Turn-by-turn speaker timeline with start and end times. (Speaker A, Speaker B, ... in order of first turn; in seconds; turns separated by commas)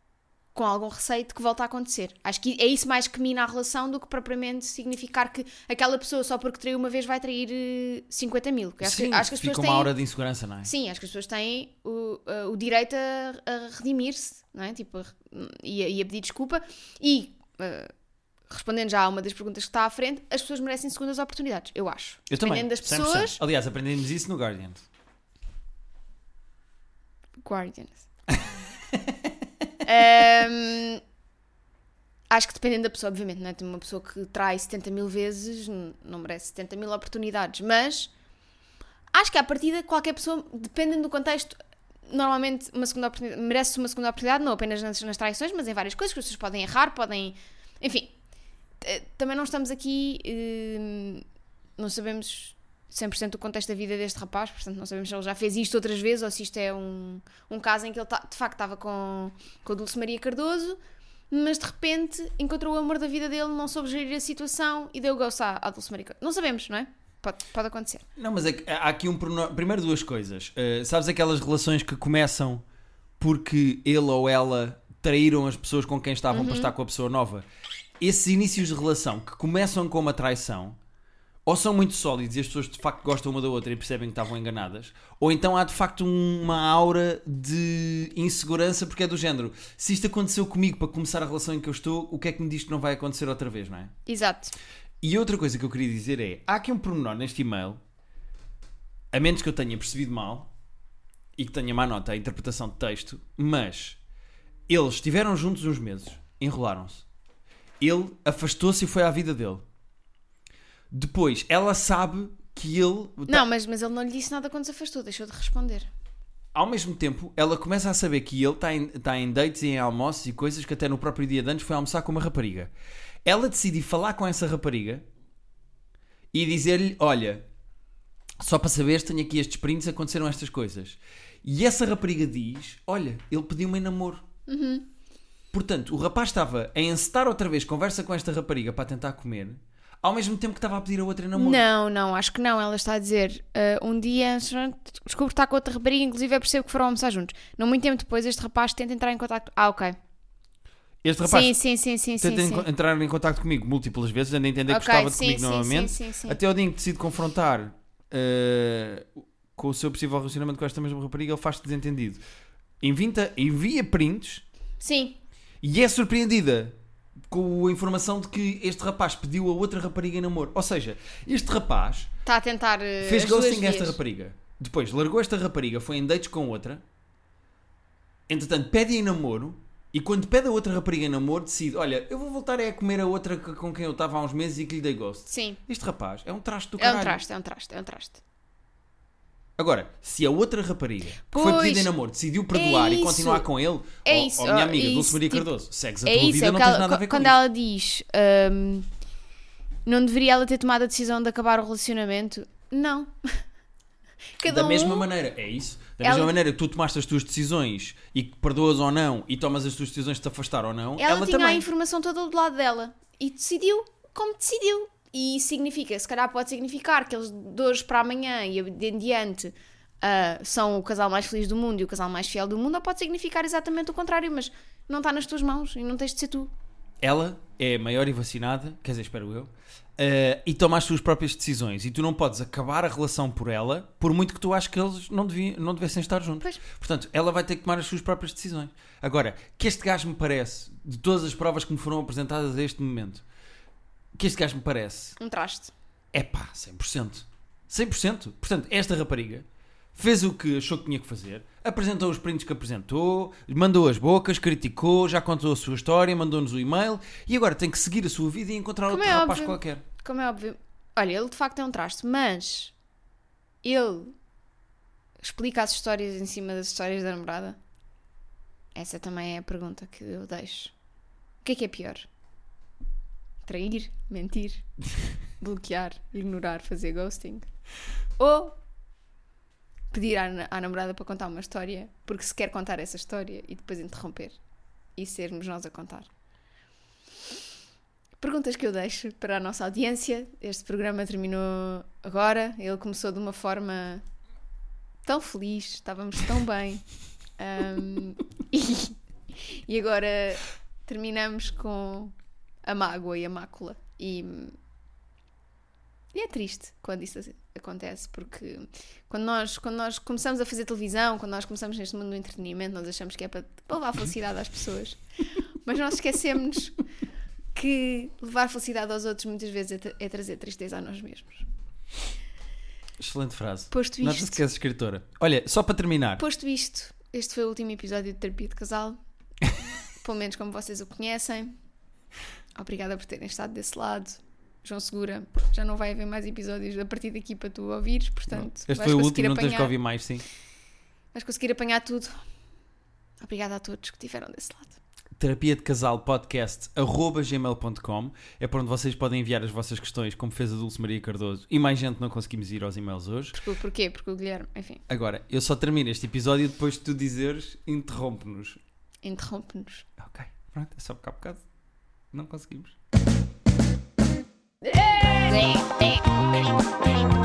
Speaker A: 0.5-9.9, Speaker B: 8.8-10.7, Speaker A: 10.6-17.9, Speaker A: 18.5-23.4, Speaker B: 22.3-24.9, Speaker A: 27.4-28.1, Speaker B: 28.9-29.3, Speaker A: 29.8-31.0, Speaker A: 32.3-38.1, Speaker A: 39.1-41.5, Speaker A: 42.1-48.1, Speaker A: 48.8-51.2, Speaker A: 51.8-60.8, Speaker A: 61.3-68.0, Speaker B: 68.2-72.6, Speaker B: 73.2-77.4, Speaker A: 76.3-76.7, Speaker B: 78.0-80.8, Speaker B: 81.5-93.9, Speaker A: 94.0-94.5, Speaker B: 95.0-97.8, Speaker B: 99.1-100.5, Speaker B: 101.4-104.0, Speaker B: 104.7-107.0, Speaker B: 107.8-109.6, Speaker B: 110.9-113.5, Speaker A: 113.3-115.9, Speaker B: 116.5-122.7, Speaker B: 123.2-125.0, Speaker B: 126.3-127.4, Speaker B: 128.4-134.2, Speaker A: 134.5-134.9, Speaker B: 135.5-141.6, Speaker A: 141.3-150.0, Speaker B: 151.0-151.6, Speaker A: 151.2-152.7, Speaker B: 152.2-162.2, Speaker A: 154.7-156.4, Speaker B: 162.8-164.4, Speaker A: 164.8-165.2, Speaker B: 165.6-166.8, Speaker B: 167.3-172.1, Speaker A: 172.2-174.0, Speaker B: 173.0-176.8, Speaker B: 178.3-187.2, Speaker A: 185.3-185.6, Speaker A: 186.8-188.2, Speaker B: 189.6-197.4, Speaker A: 191.3-191.9, Speaker A: 192.5-193.4, Speaker A: 194.0-195.5, Speaker A: 196.0-198.9, Speaker A: 199.8-203.4, Speaker A: 204.4-205.1, Speaker B: 204.4-211.6, Speaker A: 206.0-206.3, Speaker A: 211.0-226.5, Speaker B: 227.0-243.2, Speaker B: 244.1-245.2, Speaker A: 245.2-245.7, Speaker B: 246.1-259.8, Speaker A: 258.9-262.7, Speaker A: 263.6-264.1, Speaker A: 265.2-267.6, Speaker A: 268.7-270.7, Speaker A: 271.4-272.1, Speaker A: 273.4-274.6, Speaker A: 275.4-277.5, Speaker A: 278.2-278.6, Speaker A: 279.9-284.4, Speaker A: 284.9-286.1, Speaker A: 288.2-294.0, Speaker A: 295.0-296.8, Speaker A: 297.4-302.1, Speaker A: 302.6-304.6, Speaker A: 306.1-316.8, Speaker A: 317.5-321.4, Speaker B: 323.0-326.2, Speaker A: 323.7-324.4, Speaker A: 326.2-329.0, Speaker A: 330.0-331.5, Speaker A: 332.6-339.7, Speaker B: 338.3-340.2, Speaker A: 341.1-342.1, Speaker A: 343.2-344.8, Speaker B: 345.2-353.4, Speaker A: 353.3-354.8, Speaker B: 354.9-358.6, Speaker A: 359.0-359.9, Speaker B: 360.0-361.4, Speaker B: 362.1-362.8, Speaker A: 364.8-365.6